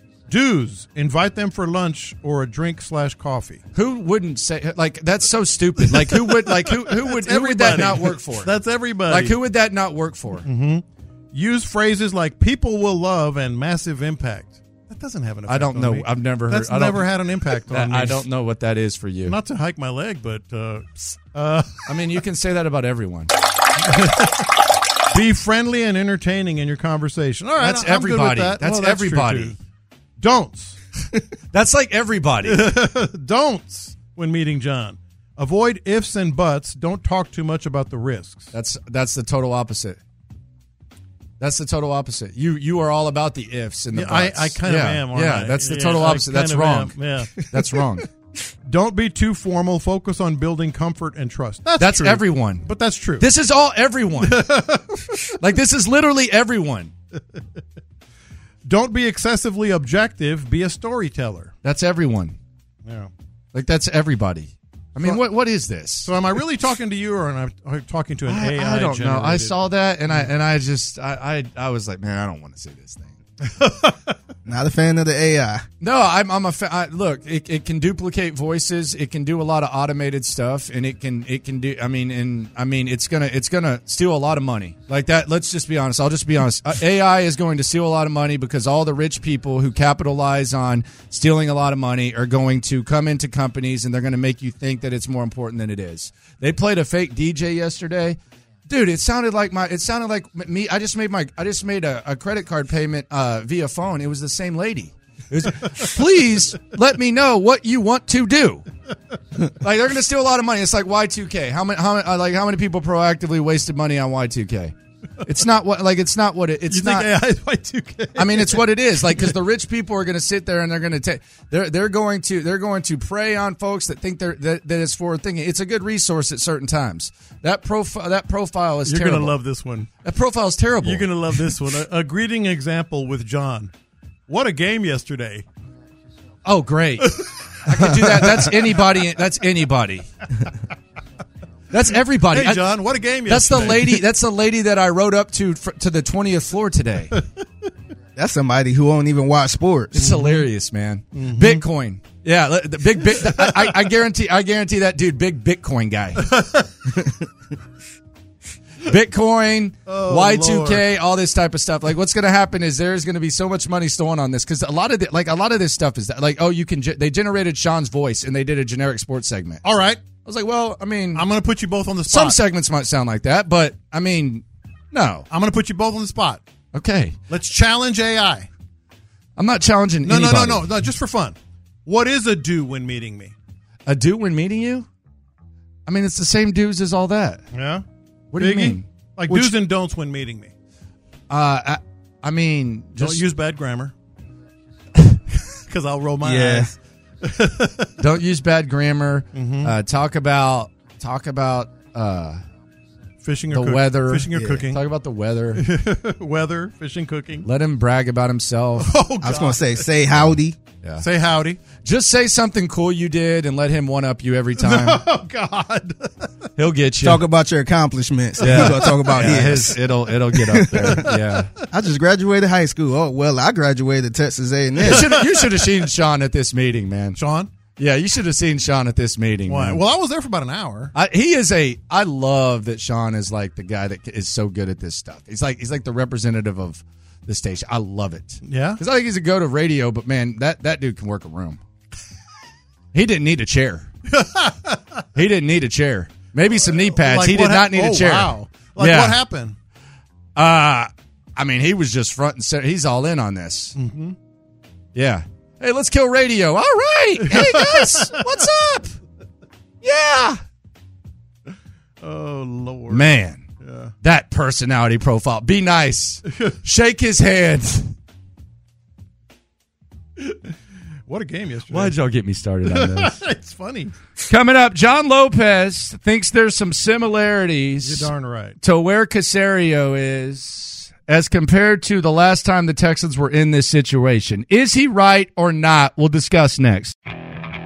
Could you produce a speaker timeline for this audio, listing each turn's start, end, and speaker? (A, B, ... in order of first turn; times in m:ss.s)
0:00.3-0:03.6 A
0:03.7-0:08.5 B
0:05.8-0:09.5 A
0:09.0-0:10.4 B
0:10.4-0:18.3 A
0:15.4-0:17.1 B
0:17.7-0:19.4 B
0:19.2-0:22.0 A
0:21.9-0:23.3 B
0:23.8-0:24.5 A
0:25.1-0:29.6 A
0:27.6-0:29.6 B
0:30.2-0:30.8 A
0:31.5-0:32.7 B
0:32.4-0:38.5 A
0:38.5-0:40.0 B
0:41.4-0:48.1 B
0:43.9-0:47.3 A
0:48.6-0:53.3 A
0:51.8-0:52.6 B
0:53.2-0:54.5 B
0:54.2-0:55.2 A
0:55.4-0:56.9 B
0:58.6-1:01.5 A
1:01.6-1:02.4 B
1:02.8-1:03.1 A
1:03.5-1:06.1 B
1:05.0-1:05.2 A
1:06.0-1:10.3 A
1:08.2-1:13.2 B
1:13.5-1:14.1 A
1:14.4-1:15.6 C
1:15.8-1:48.6 B
1:49.5-1:57.1 B
1:56.6-1:59.3 A
1:58.2-2:09.4 B
2:08.8-2:09.9 A
2:10.0-2:11.5 B
2:10.8-2:13.7 A
2:14.3-2:15.4 A
2:16.4-2:20.1 B
2:17.2-2:18.8 A
2:21.7-2:22.7 B
2:21.9-2:24.0 A
2:23.2-2:27.1 B
2:28.2-2:30.1 C
2:30.0-2:30.4 A
2:30.0-2:36.3 B
2:31.1-2:31.6 A
2:33.2-2:33.7 A
2:36.2-2:36.8 A
2:38.8-2:49.6 B
2:39.9-2:40.8 A
2:49.6-2:50.0 A
2:50.2-2:51.2 B
2:51.1-2:52.4 A
2:52.1-2:55.2 B
2:55.3-2:56.4 A
2:56.7-2:57.2 B
2:57.3-2:58.5 A
2:59.4-3:00.7 B
3:00.0-3:03.3 A
3:03.8-3:04.9 B
3:05.8-3:07.4 B
3:07.5-3:10.5 A
3:08.3-3:09.5 B
3:11.3-3:13.2 B
3:13.0-3:13.9 A
3:15.4-3:18.0 A
3:16.2-3:16.7 C
3:18.0-3:22.4 B
3:19.3-3:19.7 A
3:23.2-3:24.8 A
3:23.5-3:25.6 B
3:25.5-3:27.5 A
3:27.4-3:28.9 B
3:28.8-3:29.9 A
3:29.2-3:30.6 C
3:30.1-3:31.0 B
3:31.0-3:31.6 A
3:31.8-3:35.0 B
3:34.6-3:36.5 A
3:36.6-3:37.2 B
3:37.0-3:39.9 C
3:38.4-3:41.5 B
3:40.5-3:41.0 C
3:41.1-3:41.4 A
3:41.7-3:45.1 C
3:44.8-3:47.2 B
3:45.0-3:45.4 A
3:47.1-3:47.5 A
3:47.8-3:49.8 B
3:49.4-3:50.9 A
3:50.9-4:01.6 B
3:58.4-3:58.8 A
4:02.9-4:03.9 B
4:04.1-4:05.0 A
4:05.1-4:09.2 B
4:06.6-4:09.6 A
4:10.4-4:13.8 B
4:13.7-4:14.2 A
4:14.9-4:19.0 B
4:17.3-4:18.4 A
4:19.8-4:20.4 B
4:22.0-4:23.9 A
4:22.9-4:23.4 B
4:24.0-4:27.9 B
4:30.2-4:30.4 A
4:31.1-4:32.0 A
4:31.6-4:33.2 B
4:32.6-4:33.9 A
4:34.2-4:46.9 B
4:37.8-4:38.6 A